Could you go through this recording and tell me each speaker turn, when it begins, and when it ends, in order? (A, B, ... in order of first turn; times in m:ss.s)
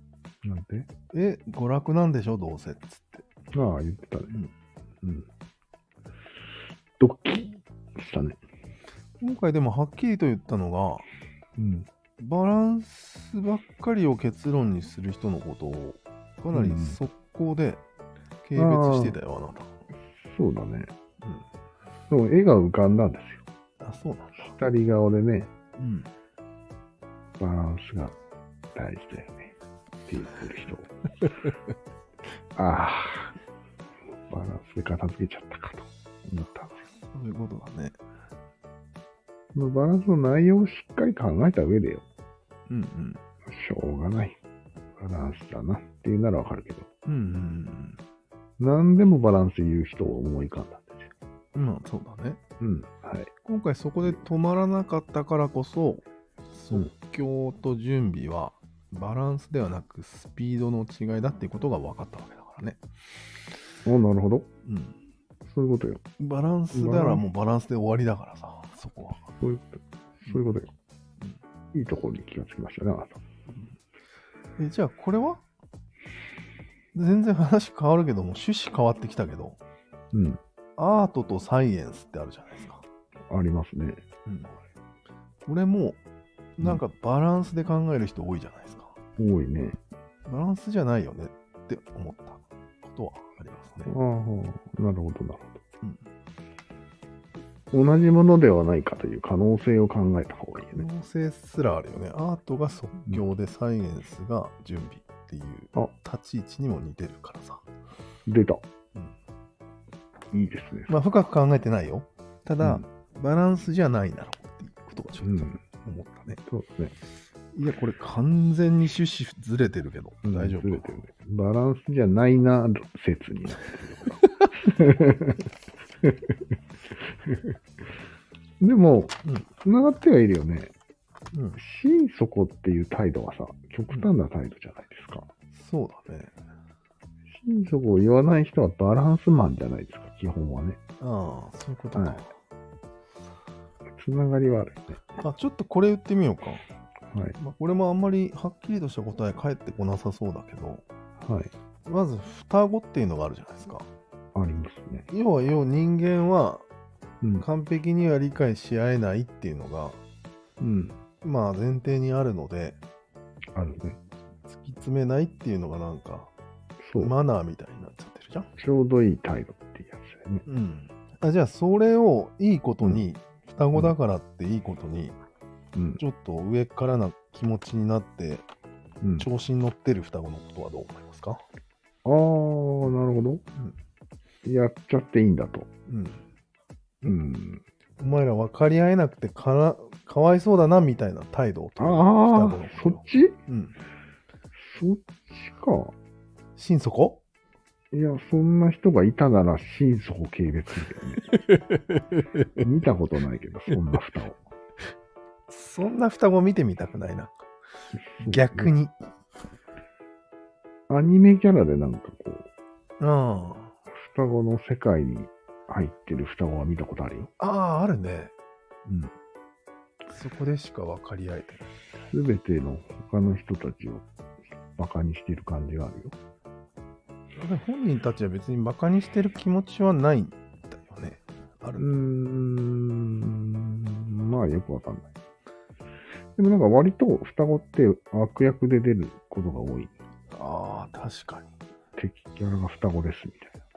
0:00.4-0:00.9 A
0:01.1-0:03.2 B
0:03.5-0:04.3 A
0:05.0-0:05.3 A
0:07.0-0:08.4 A
0:09.2-0:11.0 B
0:11.6-0:11.9 A
0:12.2-0:17.8 B
0:16.5-0:17.0 A
0:18.4-0:19.7 B
0:18.6-0:19.2 A
0:20.1-0:20.9 A
0:22.1-0:23.4 A
0:23.8-0:24.5 B
0:24.4-0:25.5 A
0:25.8-0:26.1 B
0:27.4-0:28.1 A
0:28.7-0:29.5 A
0:30.1-0:30.9 A
0:32.5-0:33.3 A
0:34.3-0:36.8 A
0:37.1-0:38.0 B
0:39.5-0:42.0 A
0:42.7-0:43.2 B
0:43.4-0:44.4 A
0:45.0-0:46.9 A
0:47.0-0:48.0 B
0:48.6-0:51.1 A
0:51.5-0:52.4 B
0:52.6-0:53.3 A
0:53.4-1:02.8 B
1:03.8-1:04.5 A
1:04.6-1:05.0 B
1:05.5-1:06.0 A
1:06.2-1:09.2 B
1:06.7-1:07.2 A
1:09.4-1:10.7 A
1:11.7-1:13.2 A
1:14.6-1:15.4 B
1:16.9-1:19.6 B
1:20.1-1:20.4 A
1:20.8-1:22.8 B
1:23.3-1:24.0 A
1:24.2-1:24.5 B
1:25.4-1:26.0 B
1:26.6-1:28.9 B
1:29.2-1:29.8 A
1:30.3-1:33.9 B
1:33.9-1:35.6 A
1:37.7-1:40.8 A
1:40.7-1:47.6 B
1:48.2-1:48.6 A
1:50.3-1:50.9 A
1:50.9-1:56.4 B
1:55.2-1:55.6 A
1:56.5-1:56.9 A
1:57.5-2:01.0 B
2:00.2-2:05.5 A
2:06.0-2:06.4 A
2:07.1-2:07.5 A
2:08.6-2:10.7 A
2:11.3-2:11.6 B
2:11.6-2:15.3 A
2:15.5-2:16.3 B
2:17.3-2:20.8 A
2:21.0-2:22.3 B
2:23.9-2:25.0 A
2:25.2-2:26.6 B
2:27.1-2:27.4 A
2:27.4-2:30.8 B
2:31.2-2:31.5 A
2:31.8-2:33.9 B
2:34.3-2:35.1 A
2:35.1-2:36.6 B
2:37.4-2:40.0 B
2:40.6-2:41.0 A
2:41.2-2:42.8 B
2:43.5-2:44.0 A
2:44.4-2:46.3 B
2:46.8-2:47.1 A
2:46.9-2:48.5 B
2:48.6-2:50.4 A
2:50.4-2:55.2 B
2:55.7-2:56.0 A
2:56.0-2:58.5 B
2:59.0-2:59.3 A
2:59.2-3:01.4 B
3:02.0-3:03.4 A
3:04.4-3:05.7 A
3:05.9-3:06.2 B
3:07.0-3:07.6 A
3:08.0-3:13.8 B
3:11.8-3:13.4 A
3:14.6-3:15.9 A
3:16.6-3:17.2 B
3:17.9-3:21.3 A
3:21.3-3:22.5 B
3:22.6-3:24.4 A
3:25.5-3:27.3 B
3:28.1-3:28.7 A
3:28.2-3:28.9 B
3:30.9-3:32.5 A
3:33.0-3:33.7 B
3:33.9-3:37.3 A
3:37.4-3:38.3 B
3:38.8-3:39.1 A
3:40.1-3:41.7 B
3:41.9-3:44.0 A
3:44.7-3:46.1 A
3:47.4-3:51.9 B
3:51.8-3:55.1 A
3:56.4-3:59.9 A
4:00.3-4:01.5 B
4:02.0-4:03.5 A